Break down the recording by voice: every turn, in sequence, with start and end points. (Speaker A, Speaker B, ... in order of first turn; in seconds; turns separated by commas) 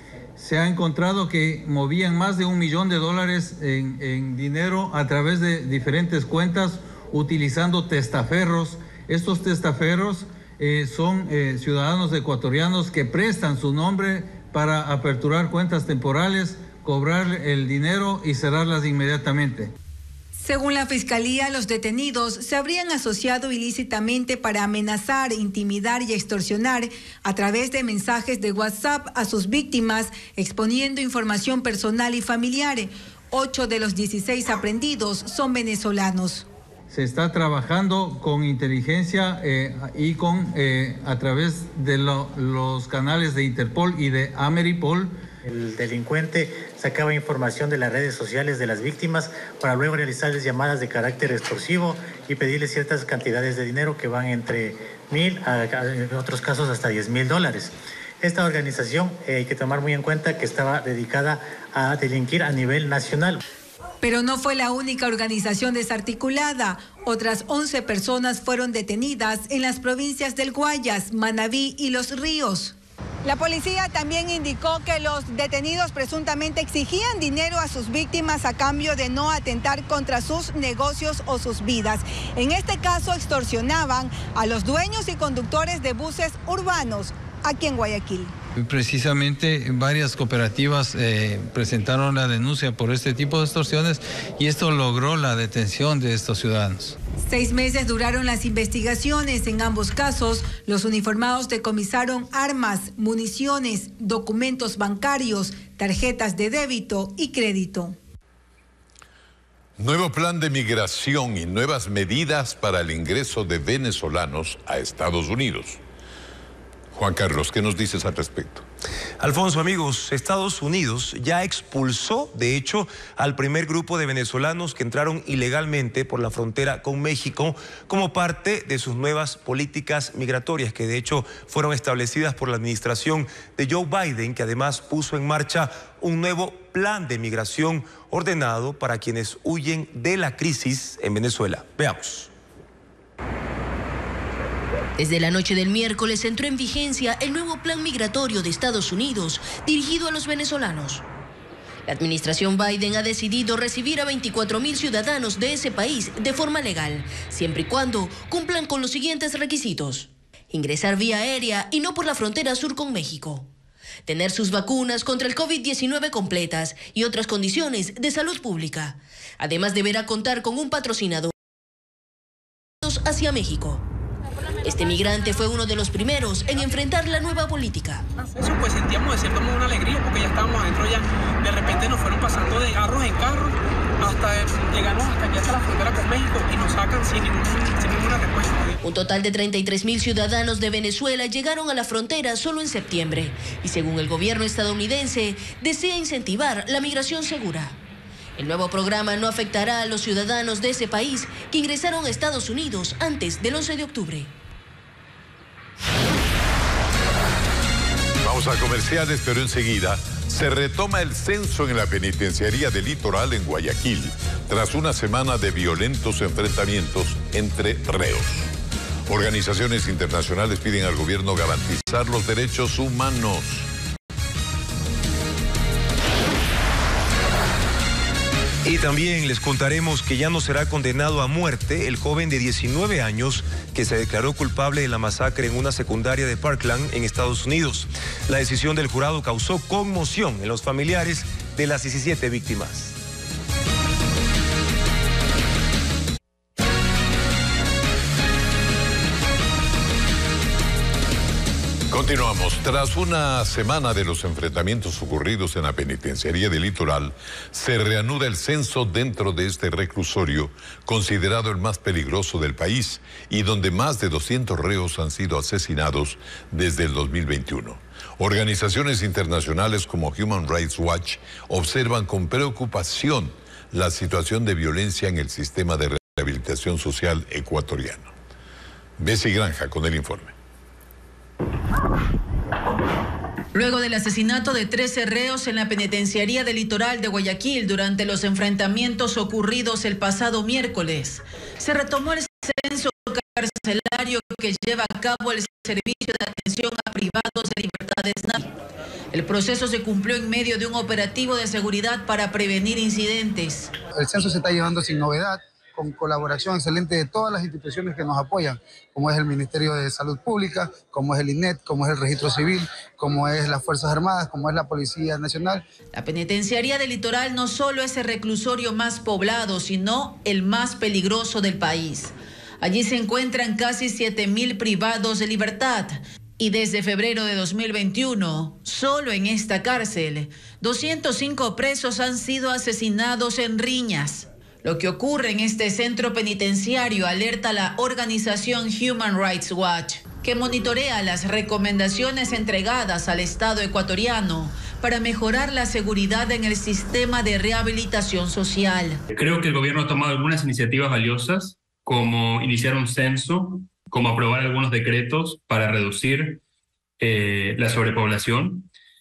Speaker A: 0.4-19.7, Speaker B: 20.5-36.4, Speaker A: 36.9-45.2, Speaker C: 45.5-63.4, Speaker B: 64.0-72.7, Speaker B: 73.3-88.3, Speaker B: 97.3-107.9, Speaker D: 109.8-115.8, Speaker D: 116.9-118.7, Speaker E: 119.2-142.3, Speaker F: 145.0-151.1, Speaker F: 151.9-163.5, Speaker F: 164.1-171.3, Speaker F: 172.8-173.8, Speaker F: 174.6-178.0, Speaker G: 178.2-188.8, Speaker F: 188.8-197.8, Speaker F: 198.4-204.3, Speaker D: 208.2-218.5, Speaker D: 219.1-223.7, Speaker E: 228.6-243.0, Speaker D: 251.9-278.1, Speaker D: 279.0-280.3, Speaker H: 283.5-298.5, Speaker H: 299.1-303.7, Speaker I: 303.9-315.6, Speaker H: 315.9-349.0, Speaker J: 349.1-356.4, Speaker J: 357.0-358.7